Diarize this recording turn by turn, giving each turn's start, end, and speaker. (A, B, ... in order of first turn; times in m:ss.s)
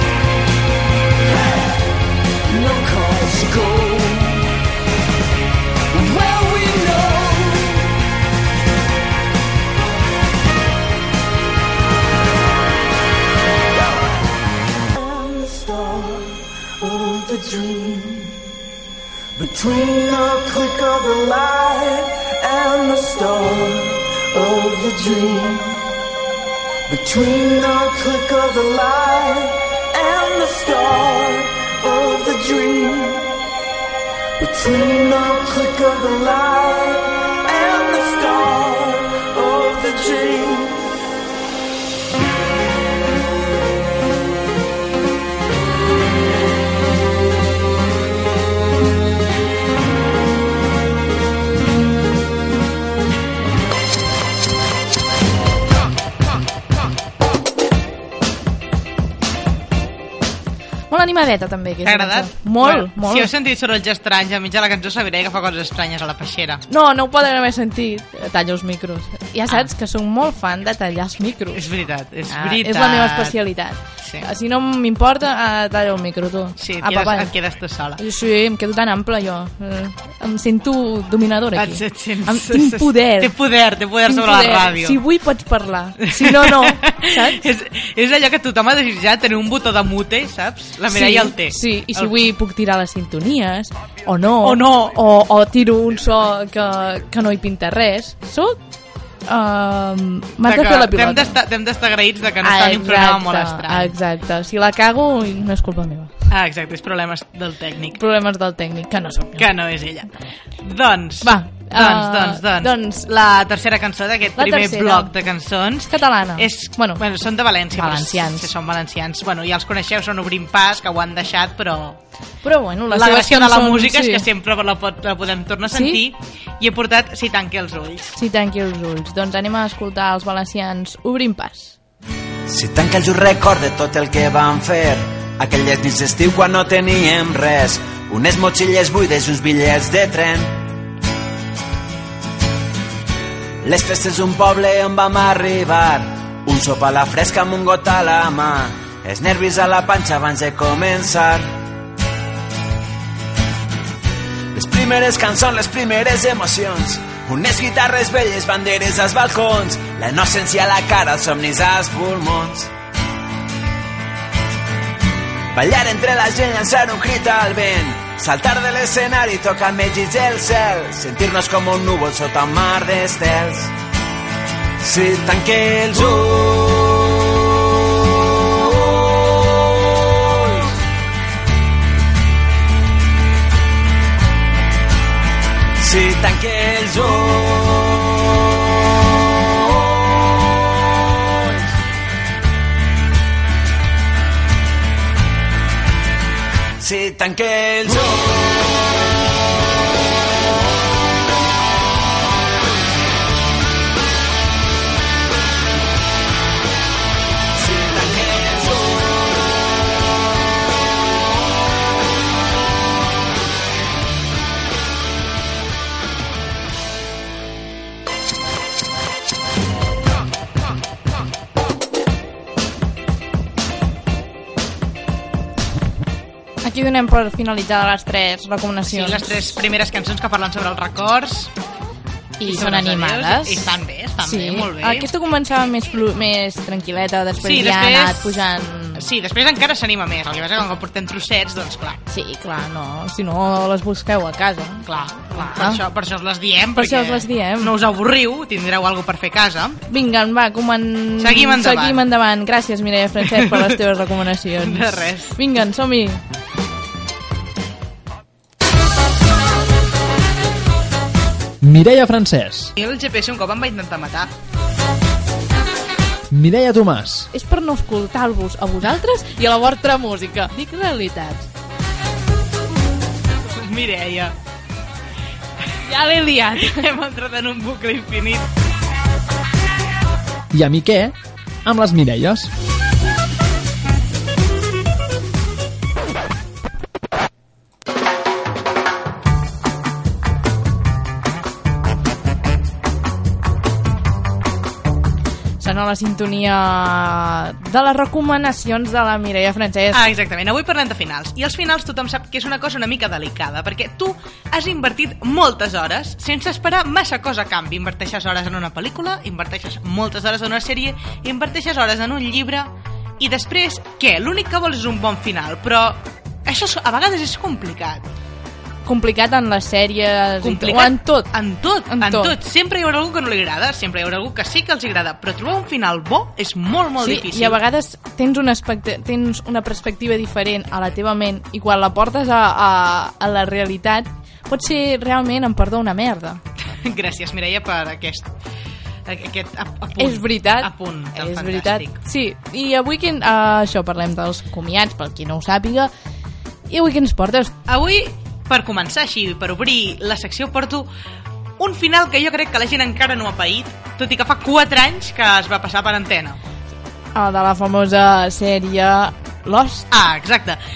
0:01.3-0:01.7 A
0:02.5-0:04.6 A
0:05.9-0:08.0 A
0:15.0-0:18.4 A
0:19.4-0:25.8 A
0:26.9-0:33.3 A
0:34.4-0:41.0 A
1:00.9-1:03.3 B
1:01.8-1:06.6 C
1:06.7-1:11.7 B
1:11.6-1:13.4 C
1:12.3-1:17.3 B
1:14.0-1:14.3 C
1:16.6-1:18.0 C
1:18.0-1:23.3 B
1:21.6-1:25.0 C
1:24.1-1:27.4 B
1:26.0-1:32.2 C
1:30.9-1:38.6 B
1:34.4-1:35.0 C
1:39.3-1:41.4 B
1:40.5-1:43.9 C
1:42.4-1:46.1 B
1:46.3-1:48.0 C
1:48.0-1:49.5 B
1:49.4-2:02.0 C
1:51.2-1:53.1 B
1:54.4-1:55.1 B
1:55.8-1:57.0 B
1:57.7-1:58.5 B
2:02.4-2:04.3 B
2:02.9-2:08.2 C
2:05.7-2:06.0 B
2:08.2-2:11.8 B
2:12.5-2:20.6 D
2:23.6-2:31.5 D
2:34.5-2:42.7 D
2:45.5-2:53.7 D
2:54.8-2:57.2 D
2:58.8-3:00.6 D
3:05.8-3:07.9 D
3:16.8-3:18.4 D
3:27.8-3:28.6 D
3:46.6-3:49.5 B
3:48.9-3:51.5 C
3:52.4-3:59.0 B
3:52.4-3:55.1 C
3:57.4-3:58.4 C
3:59.0-4:02.0 C
4:02.1-4:05.8 B
4:04.9-4:09.8 C
4:06.8-4:07.7 B
4:09.9-4:16.2 B
4:11.2-4:12.0 C
4:13.2-4:13.8 C
4:14.6-4:15.4 C
4:21.6-4:22.7 E
4:22.8-4:24.3 C
4:26.3-4:27.3 E
4:27.3-4:31.5 B
4:33.5-4:34.4 C
4:35.8-4:36.9 B
4:36.6-4:38.5 C
4:40.5-4:42.5 E
4:55.6-5:00.0 B
4:59.9-5:18.1 C
5:18.8-5:21.3 B
5:20.4-5:27.6 C
5:21.9-5:22.4 B
5:27.0-5:36.4 B
5:36.8-5:38.3 C
5:39.1-5:42.0 C
5:40.0-5:45.9 B
5:46.7-5:47.6 B
5:47.7-5:50.9 C
5:51.6-5:56.4 C
5:57.2-5:59.9 B
5:59.9-6:00.6 C